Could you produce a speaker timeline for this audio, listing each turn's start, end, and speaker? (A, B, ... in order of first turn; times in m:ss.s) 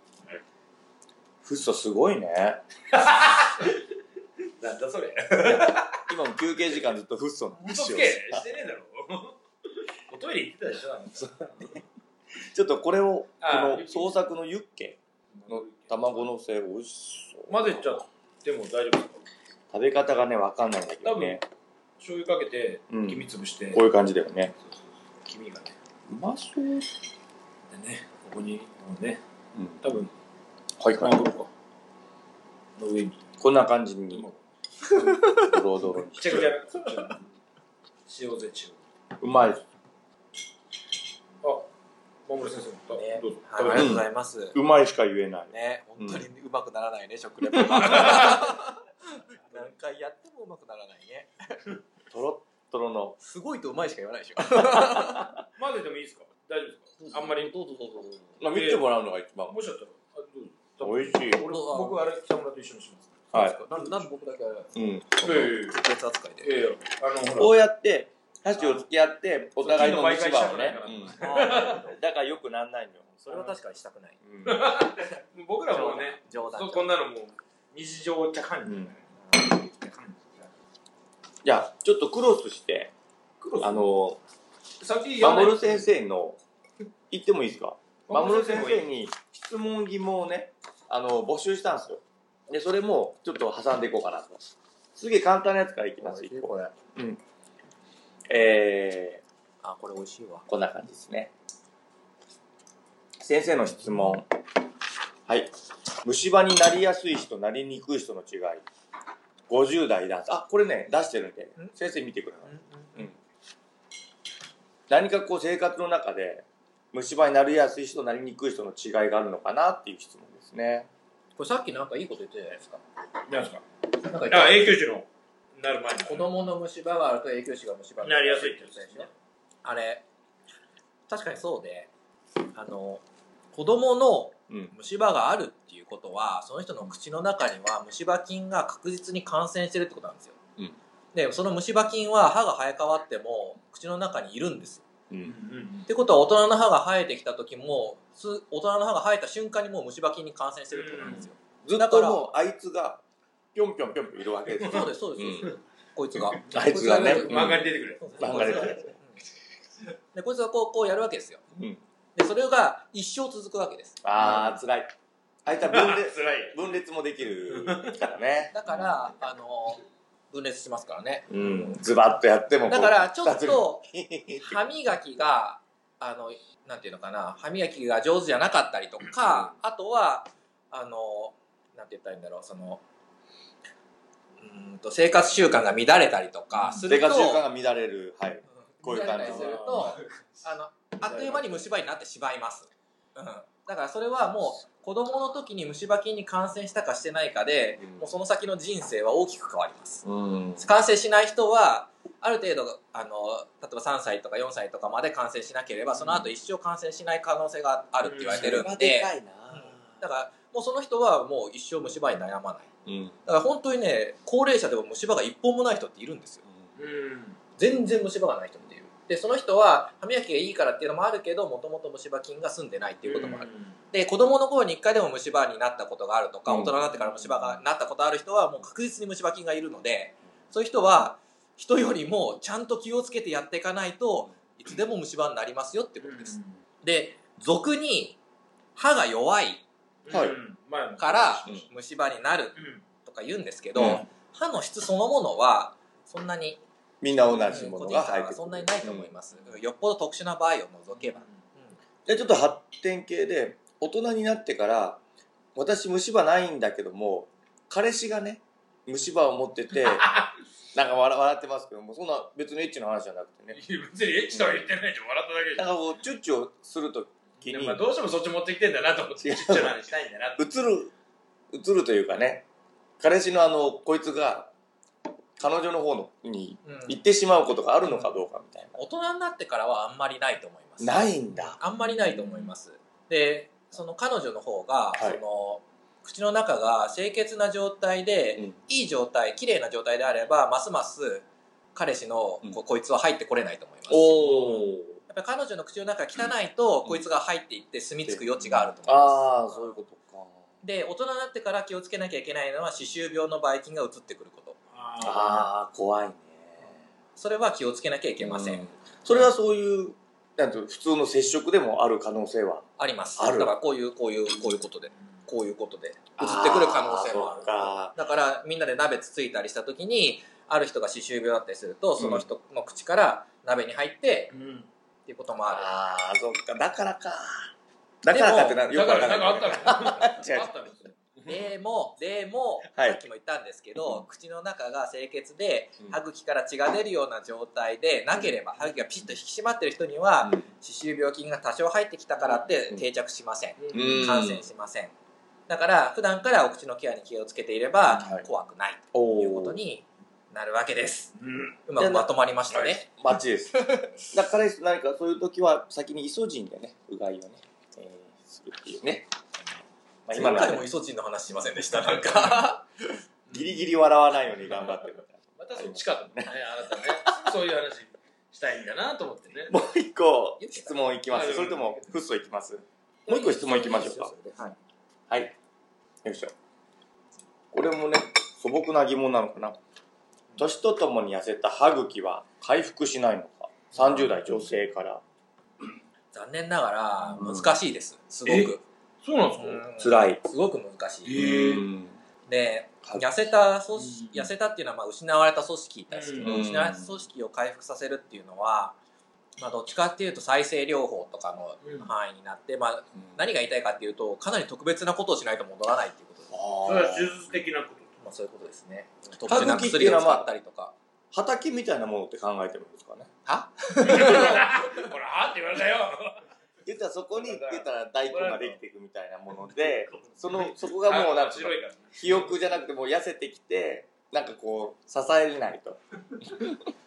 0:01.4-0:02.6 A
0:02.9-0:03.8 B
0:04.6-0:06.1 B
0:06.1-0:08.5 A
0:07.6-0:09.4 B
0:10.1-0:11.8 B
0:11.2-0:11.8 A
0:12.4-0:17.9 A
0:13.4-0:14.2 B
0:15.3-0:16.3 B
0:17.5-0:19.2 B
0:19.7-0:21.4 A
0:21.0-0:21.4 B
0:22.0-0:23.8 B
0:22.9-0:24.5 A
0:25.2-0:25.7 B
0:26.1-0:26.9 A
0:27.7-0:29.2 B
0:29.8-0:30.1 B
0:30.8-0:31.3 A
0:30.9-0:31.5 B
0:32.8-0:33.2 B
0:33.4-0:34.3 A
0:34.1-0:34.4 B
0:35.0-0:35.5 C
0:35.1-0:36.5 A
0:35.8-0:37.2 B
0:38.1-0:38.8 B
0:39.2-0:39.6 A
0:41.4-0:41.7 B
0:42.2-0:43.9 B
0:42.9-0:44.6 C
0:43.7-0:46.2 A
0:45.5-0:51.6 C
0:47.5-0:48.3 A
0:47.9-0:48.4 B
0:52.1-0:53.2 A
0:53.2-0:55.3 C
0:54.6-0:55.4 A
0:55.6-0:57.5 B
0:57.0-0:58.4 C
0:58.4-0:59.6 A
0:58.5-0:58.9 B
0:59.5-1:03.2 B
1:00.8-1:01.4 A
1:01.5-1:02.0 C
1:03.3-1:03.6 A
1:03.3-1:06.5 C
1:04.7-1:05.2 A
1:05.2-1:05.8 B
1:06.4-1:07.6 B
1:07.3-1:13.5 A
1:08.6-1:08.8 B
1:09.6-1:11.8 B
1:11.2-1:11.9 C
1:13.3-1:14.2 C
1:14.2-1:14.7 A
1:14.4-1:19.0 B
1:15.7-1:16.9 C
1:18.6-1:18.9 A
1:19.2-1:19.7 C
1:19.8-1:20.3 B
1:21.4-1:22.9 A
1:23.4-1:23.9 B
1:23.6-1:24.2 A
1:24.8-1:25.9 B
1:25.2-1:26.4 A
1:27.1-1:34.4 A
1:28.1-1:28.9 B
1:35.0-1:37.2 A
1:36.0-1:36.7 C
1:38.3-1:39.2 A
1:39.6-1:40.4 C
1:40.5-1:41.3 A
1:43.2-1:44.3 A
1:45.3-1:45.5 A
1:46.0-1:48.6 A
1:49.5-1:53.1 A
1:52.5-1:53.1 C
1:54.9-2:00.9 A
2:01.4-2:02.8 C
2:03.3-2:03.6 B
2:04.0-2:04.8 C
2:04.3-2:06.3 B
2:06.0-2:09.1 C
2:08.0-2:09.1 B
2:09.6-2:10.0 C
2:11.1-2:11.9 C
2:12.5-2:20.4 C
2:21.1-2:24.9 C
2:25.2-2:25.9 B
2:25.9-2:32.2 C
2:30.7-2:31.2 B
2:31.0-2:33.0 A
2:33.5-2:35.5 A
2:34.6-2:34.9 B
2:34.6-2:39.2 C
2:36.3-2:38.9 A
2:36.4-2:38.8 B
2:40.2-2:41.4 C
2:41.5-2:41.8 A
2:42.2-2:44.0 C
2:44.0-2:44.9 A
2:44.2-2:44.5 B
2:45.4-2:49.0 A
2:45.6-2:46.6 B
2:47.4-2:48.0 B
2:48.5-2:51.8 C
2:51.3-2:54.6 A
2:52.7-3:02.8 C
3:04.4-3:07.4 C
3:06.8-3:09.6 A
3:08.6-3:20.0 C
3:09.1-3:10.4 B
3:11.1-3:11.4 A
3:20.0-3:20.6 A
3:20.6-3:32.7 C
3:28.0-3:28.6 B
3:28.3-3:29.8 A
3:32.8-3:33.2 A
3:33.2-3:36.4 C
3:36.8-3:37.4 B
3:37.6-3:58.2 C
3:43.0-3:43.8 B
3:46.5-3:46.7 A
3:46.8-3:47.6 B
3:56.0-3:56.6 B
3:58.8-3:59.6 C
4:00.0-4:01.6 B
4:00.1-4:00.4 A
4:01.0-4:06.6 C
4:02.6-4:02.8 B
4:03.8-4:04.0 A
4:07.0-4:09.1 A
4:07.4-4:11.8 C
4:10.9-4:11.4 B
4:12.1-4:15.0 A
4:15.6-4:20.1 A
4:19.8-4:20.3 B
4:20.7-4:23.6 A
4:23.5-4:25.7 B
4:24.3-4:24.7 A
4:25.6-4:27.8 A
4:27.4-4:30.4 B
4:29.2-4:29.8 A
4:30.4-4:30.9 A
4:31.5-4:32.4 A
4:33.0-4:34.5 A
4:35.4-4:38.8 A
4:36.6-4:37.0 C
4:38.8-4:54.3 C
4:40.8-4:41.6 A
4:44.9-4:45.2 A
4:53.9-4:55.0 A
4:54.2-4:54.6 B
4:55.1-4:59.8 C
4:58.1-5:00.4 A
5:00.6-5:04.6 C
5:04.7-5:05.5 B
5:05.0-5:06.8 A
5:07.2-5:09.3 C
5:08.2-5:12.6 A
5:12.8-5:24.3 C
5:13.2-5:13.5 A
5:16.2-5:17.9 A
5:22.0-5:22.2 A
5:24.3-5:24.7 B
5:25.1-5:25.7 C
5:25.5-5:27.5 A
5:28.0-5:30.6 A
5:28.1-5:28.7 C
5:28.6-5:31.4 B
5:31.3-5:44.9 C
5:32.7-5:33.0 A
5:33.8-5:34.0 A
5:43.6-5:44.1 B
5:43.7-5:44.4 A
5:45.5-5:51.1 C
5:47.9-5:48.3 A
5:48.9-5:49.6 A
5:51.2-5:51.6 B
5:51.7-5:52.9 C
5:51.8-5:59.1 A
5:53.6-5:54.0 C
6:00.1-6:00.7 A
6:00.1-6:02.9 C
6:03.3-6:03.7 B
6:03.3-6:07.3 A
6:04.5-6:04.8 B
6:05.4-6:09.6 B
6:09.5-6:14.1 A
6:10.4-6:10.8 C
6:11.1-6:12.0 B
6:13.1-6:14.6 C
6:15.1-6:15.3 A
6:16.0-6:16.3 A
6:17.5-6:19.6 A
6:20.4-6:25.0 A
6:23.8-6:24.1 C
6:26.1-6:28.6 C
6:27.1-6:27.5 A
6:28.3-6:29.6 B
6:29.4-6:31.2 C
6:29.8-6:30.2 A
6:31.0-6:31.7 B
6:31.1-6:32.0 A
6:32.3-6:38.8 C
6:33.8-6:34.3 B
6:35.9-6:36.4 B
6:36.2-6:37.0 A
6:39.4-6:46.3 C
6:41.6-6:41.9 B
6:46.3-6:47.2 A
6:46.6-6:47.9 B
6:48.0-6:50.7 C
6:49.2-6:50.3 A
6:51.1-6:53.1 A
6:53.2-6:54.9 C
6:53.8-6:56.2 B
6:56.6-7:05.8 A
6:57.2-6:58.6 B
6:59.5-7:02.3 B